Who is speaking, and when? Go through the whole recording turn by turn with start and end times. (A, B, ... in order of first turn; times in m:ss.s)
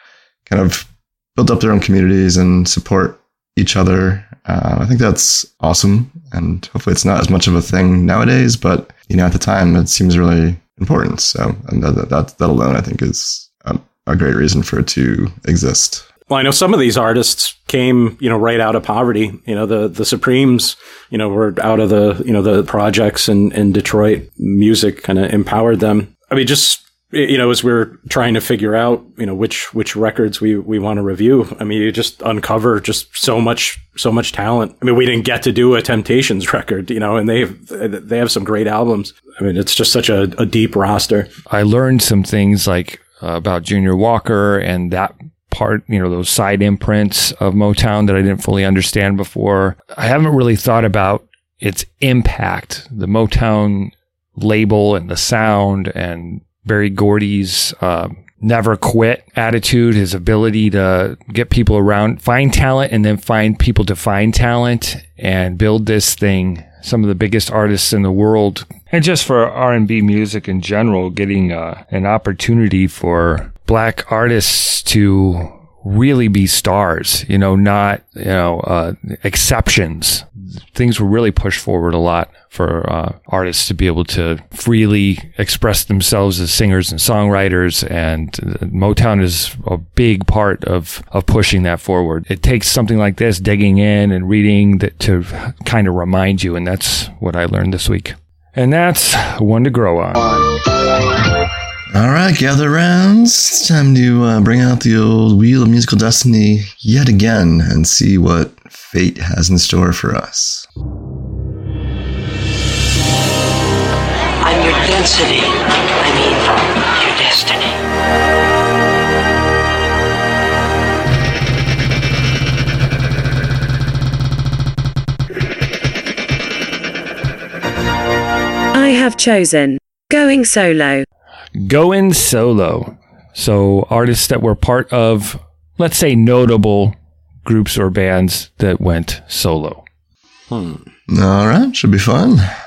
0:00.5-0:16.1 A
0:16.3-0:41.3 B
0:41.5-1:40.4 C
1:41.9-1:50.6 A
1:54.4-1:56.4 D
1:57.0-1:57.7 D
2:08.7-2:11.0 E
2:11.6-2:19.8 C
2:20.5-2:20.8 B
2:21.1-2:22.5 A